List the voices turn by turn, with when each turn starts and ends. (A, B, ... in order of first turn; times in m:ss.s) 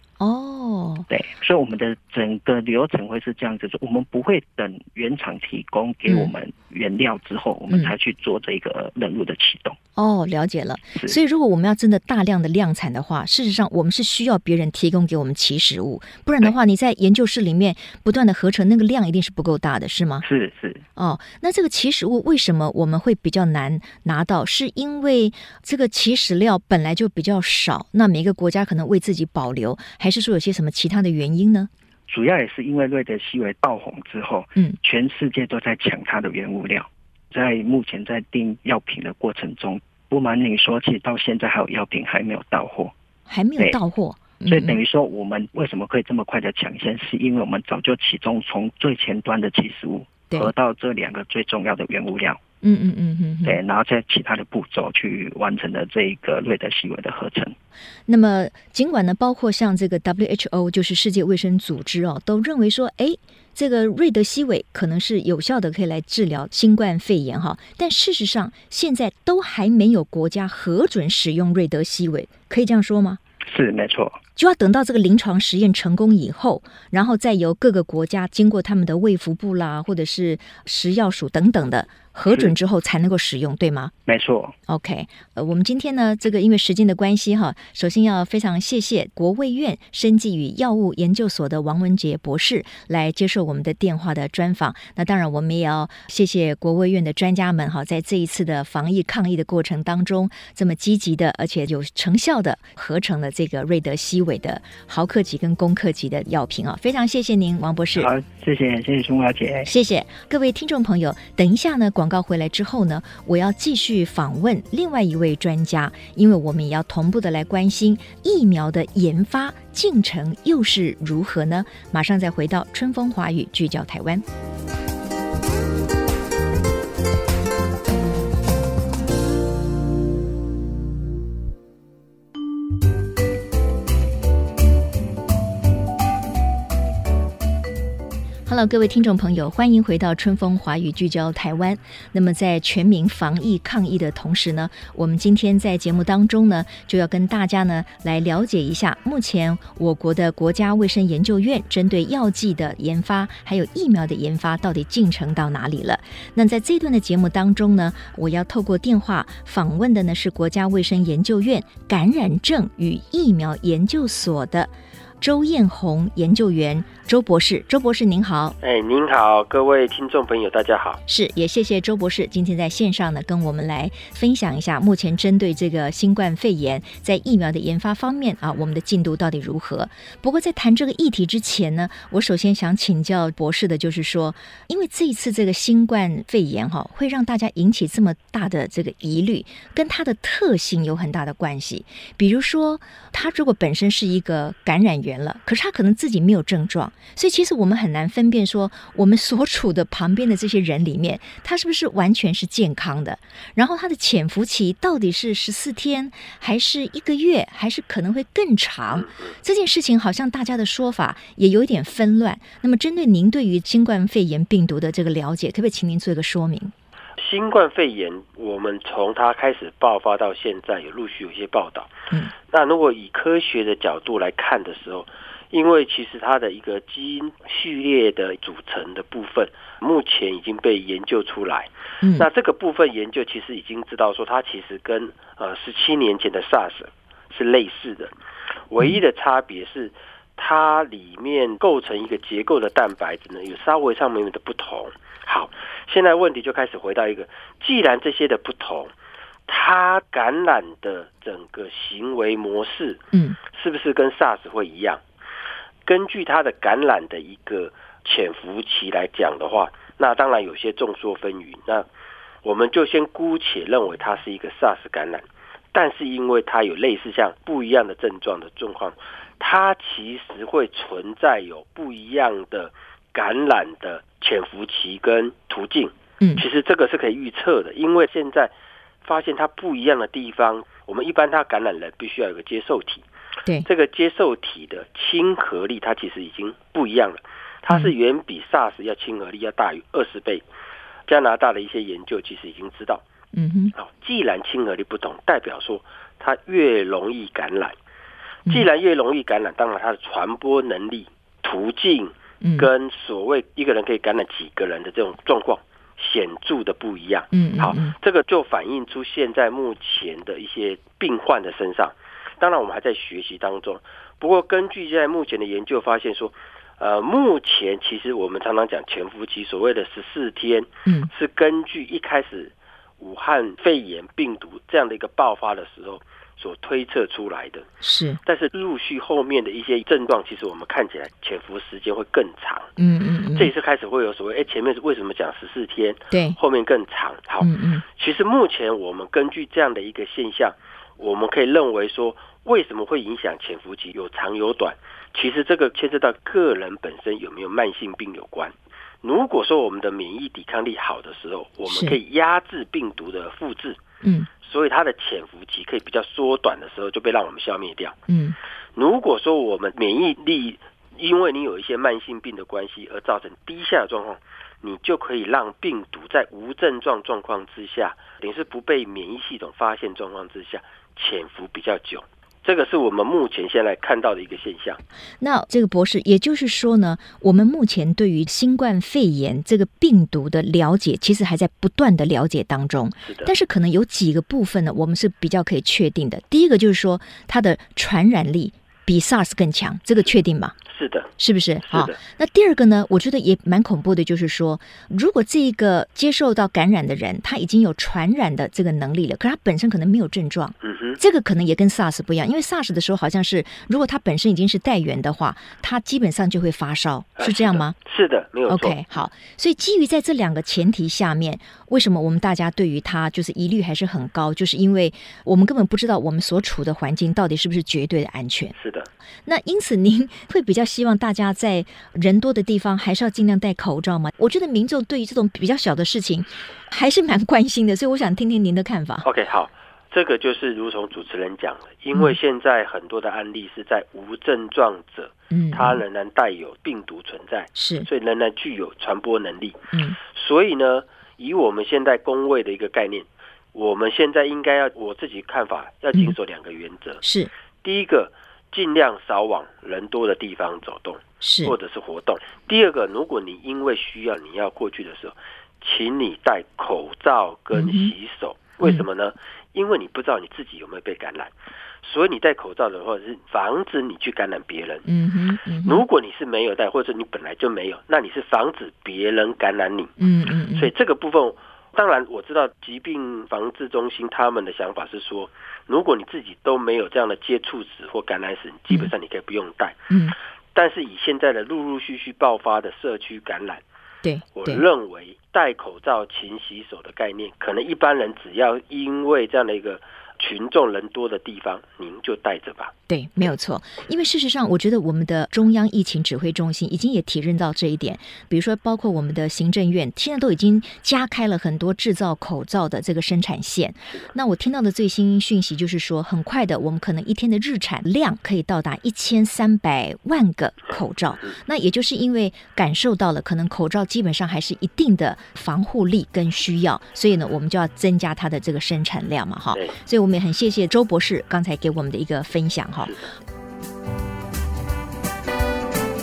0:00.2-0:01.1 A
0:01.1-0:09.8 B
0:10.0-0:20.3 A
0:20.2-0:20.8 B
0:21.0-0:31.7 A
0:32.1-0:42.9 B
0:43.3-0:44.8 A
0:44.5-0:52.4 B
0:52.6-0:53.6 A
0:53.4-0:57.6 B
0:58.1-1:13.2 A
1:13.5-1:14.2 B
1:14.4-1:23.9 A
1:24.1-1:24.6 B
1:24.7-1:48.1 A
1:48.0-1:49.7 B
1:49.7-2:04.2 A
2:18.5-2:48.6 A
2:48.6-2:51.0 C
2:51.1-3:36.7 A
3:37.2-3:41.9 C
3:42.5-3:58.1 C
3:52.0-3:52.3 A
3:58.7-4:08.9 C
4:09.5-4:15.0 C
4:13.1-4:13.4 A
4:15.9-4:21.9 C
4:22.4-4:38.5 C
4:39.0-4:43.0 C
4:43.6-4:50.4 C
4:47.7-4:47.9 A
4:51.1-4:53.0 C
4:53.3-4:53.7 A
4:53.8-4:57.8 C
4:58.5-5:27.7 C
5:02.4-5:02.7 A
5:07.3-5:07.9 A
5:27.8-5:28.2 A
5:28.2-5:32.7 C
5:32.8-5:33.5 A
5:33.4-5:53.8 C
5:36.1-5:36.4 A
5:37.4-5:37.8 A
5:51.7-5:52.0 A
5:54.0-5:54.3 A
5:54.4-5:58.0 C
5:58.1-5:58.4 A
5:58.8-6:14.8 C
6:15.2-6:30.6 A
6:23.1-6:23.3 C
6:30.7-6:31.1 C
6:31.2-6:47.8 A
6:31.6-6:32.0 C
6:40.6-6:41.0 C
6:47.2-6:48.8 C
6:48.5-6:58.6 A
6:58.6-6:58.9 C
6:59.3-7:09.1 A
7:09.0-7:27.0 C
7:15.3-7:15.8 A
7:17.6-7:17.9 A
7:19.7-7:20.0 A
7:27.0-7:27.3 A
7:27.6-7:44.9 C
7:31.2-7:31.6 A
7:37.5-7:37.9 A
7:44.9-7:45.8 A
7:45.6-7:49.9 C
7:50.0-7:50.7 A
7:50.5-7:59.8 C
7:59.9-8:00.2 A
8:00.5-8:03.6 C
8:04.0-8:04.6 A
8:04.4-8:12.7 C
8:12.9-8:43.0 A
8:42.9-8:43.1 C